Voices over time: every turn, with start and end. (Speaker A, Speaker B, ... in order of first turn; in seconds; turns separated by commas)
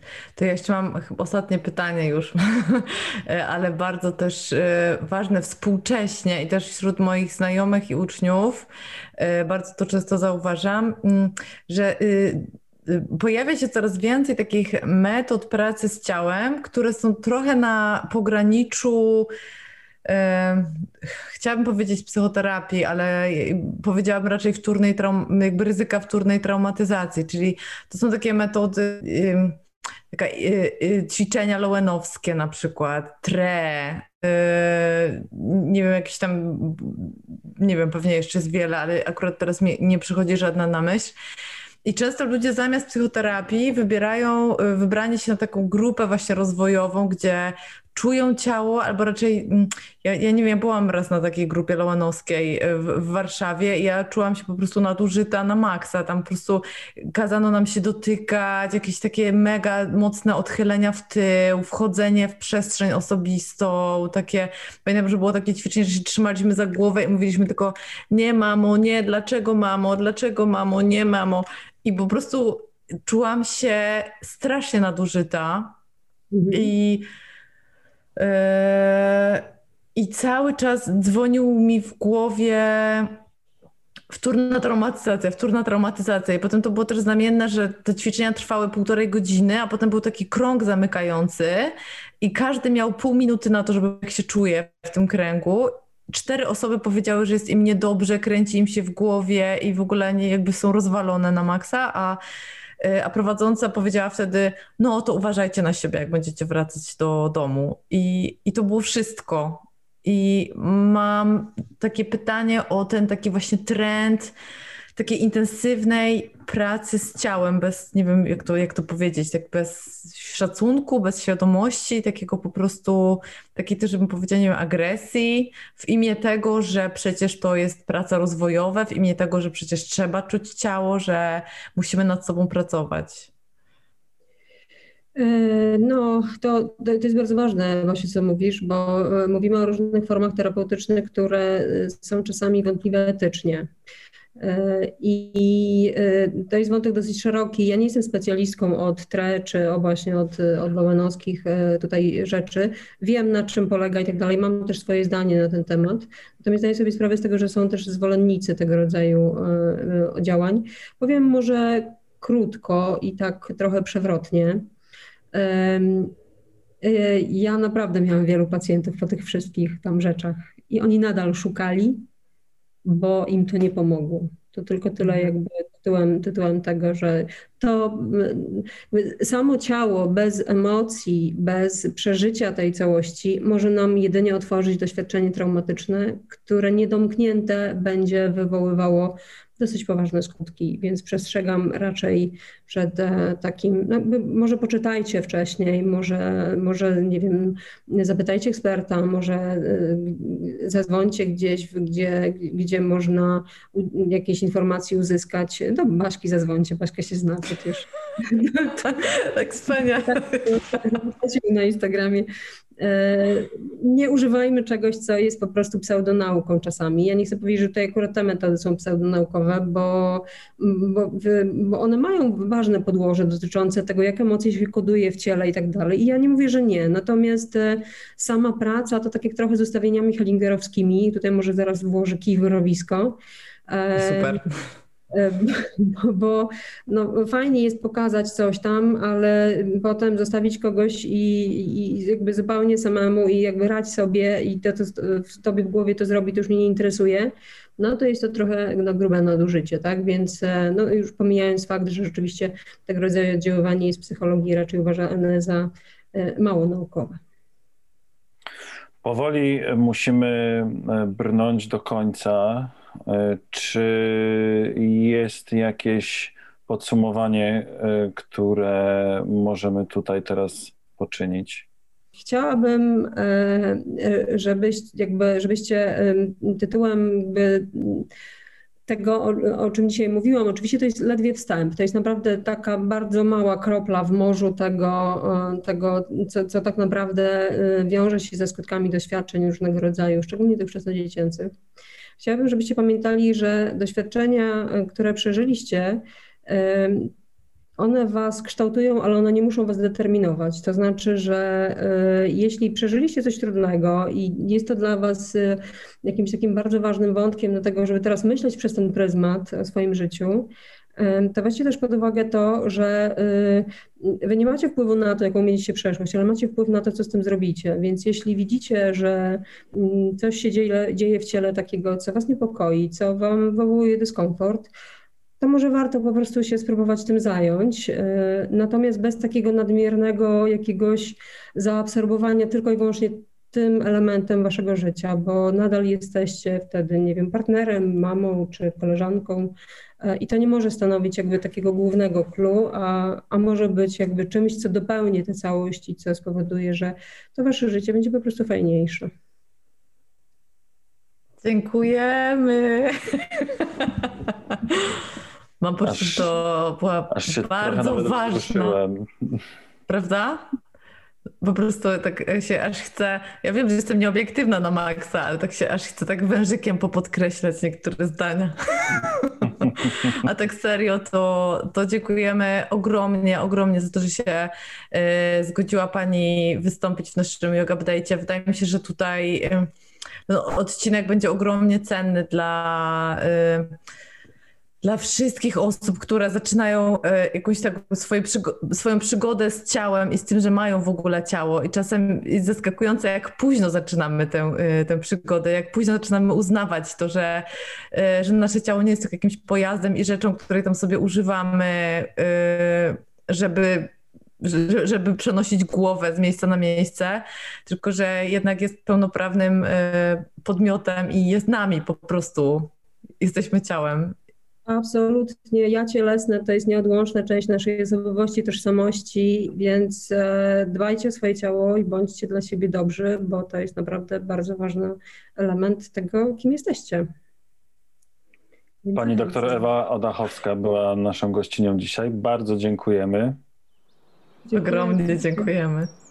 Speaker A: 0.4-19.3, Speaker A: 20.1-29.6, Speaker A: 30.1-41.1, Speaker A: 41.9-75.8, Speaker B: 76.3-76.7, Speaker A: 76.5-77.1, Speaker A: 78.2-83.2, Speaker A: 84.1-102.2, Speaker A: 102.8-114.3, Speaker A: 115.0-133.3, Speaker B: 135.2-143.7, Speaker B: 144.4-164.6, Speaker B: 165.3-166.1, Speaker B: 166.8-172.1, Speaker B: 172.8-208.9, Speaker A: 208.9-210.5, Speaker B: 210.1-212.3, Speaker B: 212.8-233.2, Speaker B: 233.7-234.4, Speaker A: 234.0-234.4, Speaker B: 235.1-257.2, Speaker C: 259.0-271.7, Speaker B: 272.2-278.1, Speaker B: 278.9-291.5, Speaker B: 292.2-297.1, Speaker B: 297.8-324.7, Speaker B: 325.4-349.1, Speaker A: 351.4-354.1, Speaker A: 355.6-358.8, Speaker C: 355.8-356.3, Speaker C: 357.1-359.4, Speaker A: 359.9-360.4, Speaker A: 361.4-379.7, Speaker A: 380.3-383.8, Speaker A: 384.8-414.2, Speaker B: 414.7-427.1, Speaker B: 428.8-429.6, Speaker C: 428.9-433.4, Speaker B: 434.5-435.5, Speaker A: 434.5-435.9